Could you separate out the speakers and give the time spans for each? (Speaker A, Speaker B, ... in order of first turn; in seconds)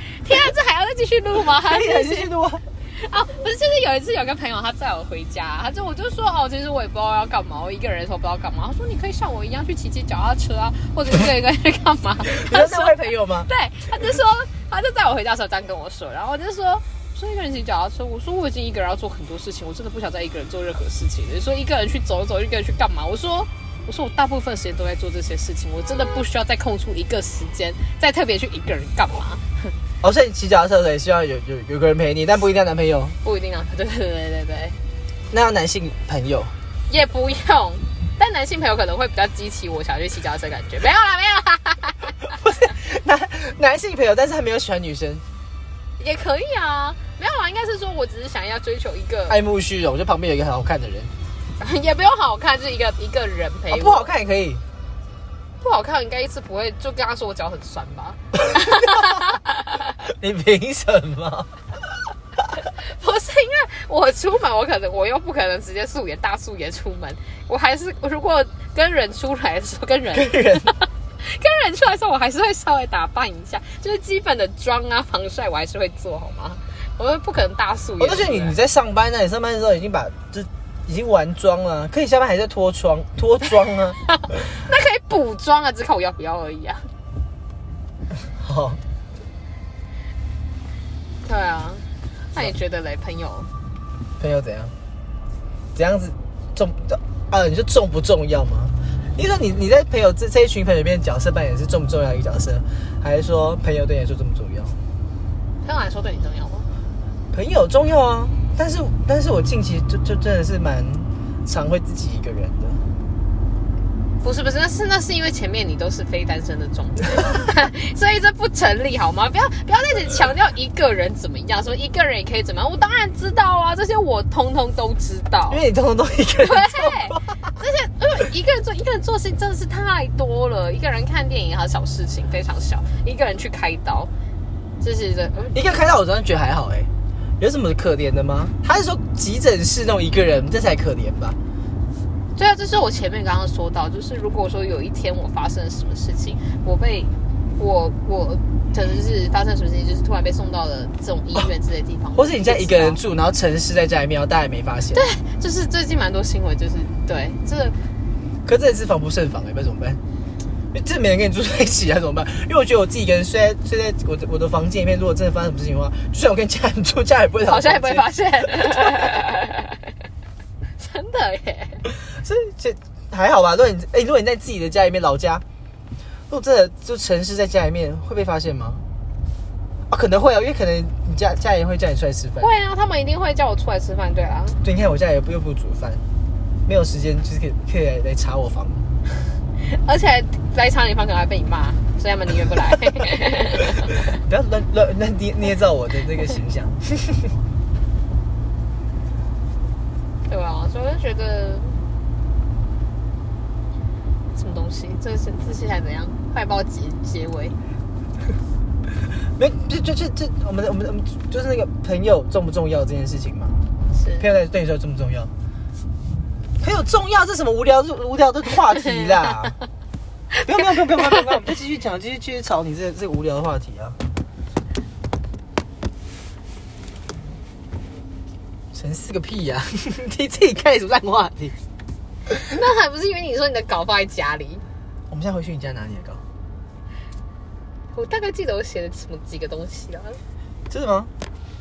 Speaker A: 0.2-2.3, 2.9-29.4, 33.2-34.8, 36.9-42.1, 46.0-49.4, 51.6-54.1, 55.6-59.8, 62.5-78.5, 84.3-86.9, 91.2-93.5, 105.6-106.7, 114.2-125.6, 126.4-134.1, 134.8-135.6, 142.3-153.0, 154.9-157.8, 167.4-169.9, 170.8-171.8, 182.4-184.6, 189.6-194.0, 200.3-201.8, 204.3-207.6, 213.9-214.2, 218.8-219.3, 232.3-234.6, 237.9-240.2
Speaker B: 1.5-2.6, 12.2-13.5, 30.0-33.2, 35.3-36.5, 42.3-45.2, 49.3-51.1, 53.7-54.6, 60.0-61.5, 70.1-70.7, 78.0-84.0, 88.2-88.8, 94.2-94.7, 95.7-104.8, 107.3-112.8, 125.5-127.4, 135.5-141.4, 152.1-155.0, 158.4-160.0, 160.7-168.9, 171.8-175.4, 176.3-178.8, 179.9-182.5, 184.6-186.0, 186.7-188.8, 194.1-197.1, 209.3-213.5, 214.2-215.3, 216.6-219.6, 220.4-224.0, 228.7-231.6, 235.1-236.2, 240.7-241.1